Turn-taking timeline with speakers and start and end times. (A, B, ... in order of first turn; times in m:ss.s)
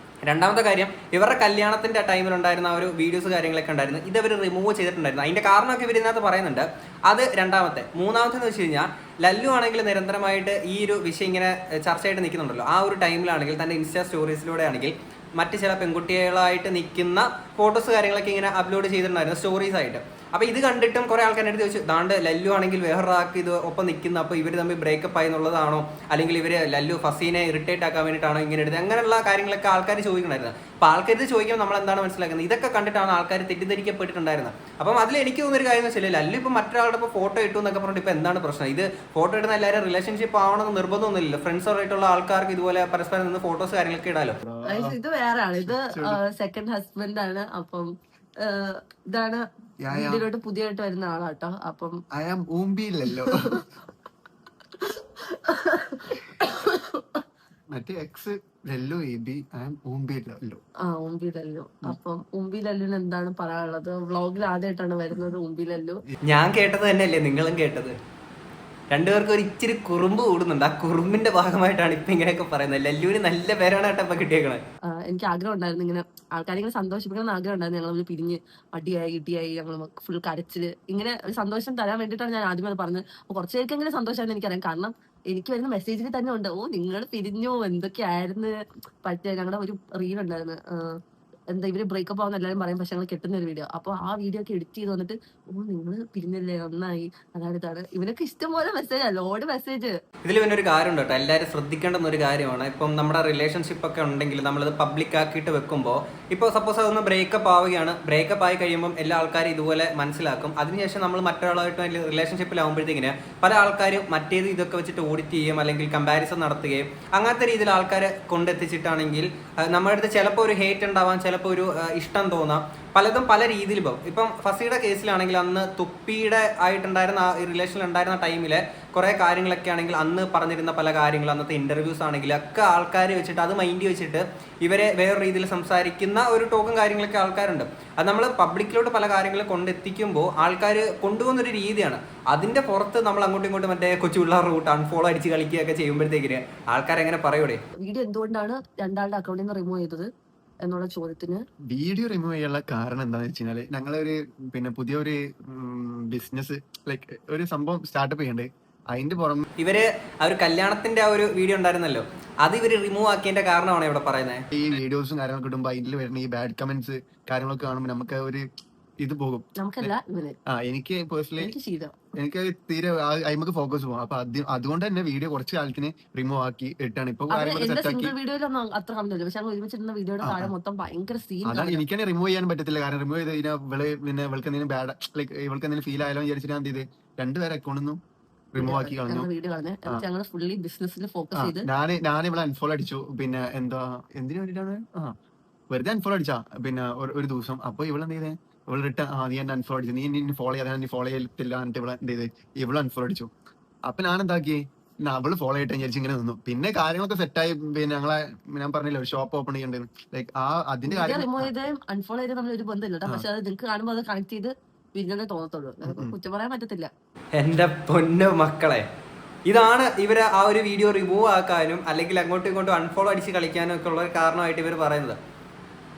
0:00.2-0:44.4 A
0:44.4-0:45.0 B
0:44.7-0:47.9 C
0:45.6-0:46.2 B
0:48.4-0:52.0 C
0:49.8-0:50.2 B
0:52.1-0:53.6 B
0:54.8-0:57.0 C
0:57.7-1:00.6 B
1:00.8-1:06.0 C
1:06.3-1:08.0 A
1:08.9-1:14.6 A
1:15.0-1:28.5 C
1:29.0-1:31.0 C
1:31.5-1:39.9 C
1:40.3-2:27.6 A
2:27.8-2:30.1 C
2:30.6-2:31.4 C
2:31.7-2:39.4 B
2:39.6-2:44.4 A
2:44.5-2:48.4 B
2:49.0-2:49.9 B
2:49.6-2:50.4 C
2:50.5-2:51.5 B
2:51.4-2:51.9 C
2:52.2-2:58.1 B
2:57.3-3:01.8 C
3:00.2-3:00.5 B
3:01.4-3:08.0 B
3:08.5-3:09.3 B
3:08.6-3:11.7 C
3:11.4-3:15.1 B
3:15.7-3:23.3 B
3:23.9-3:31.5 B
3:30.9-3:36.9 C
3:35.8-3:36.2 B
3:37.4-3:38.9 A
3:39.5-3:45.2 A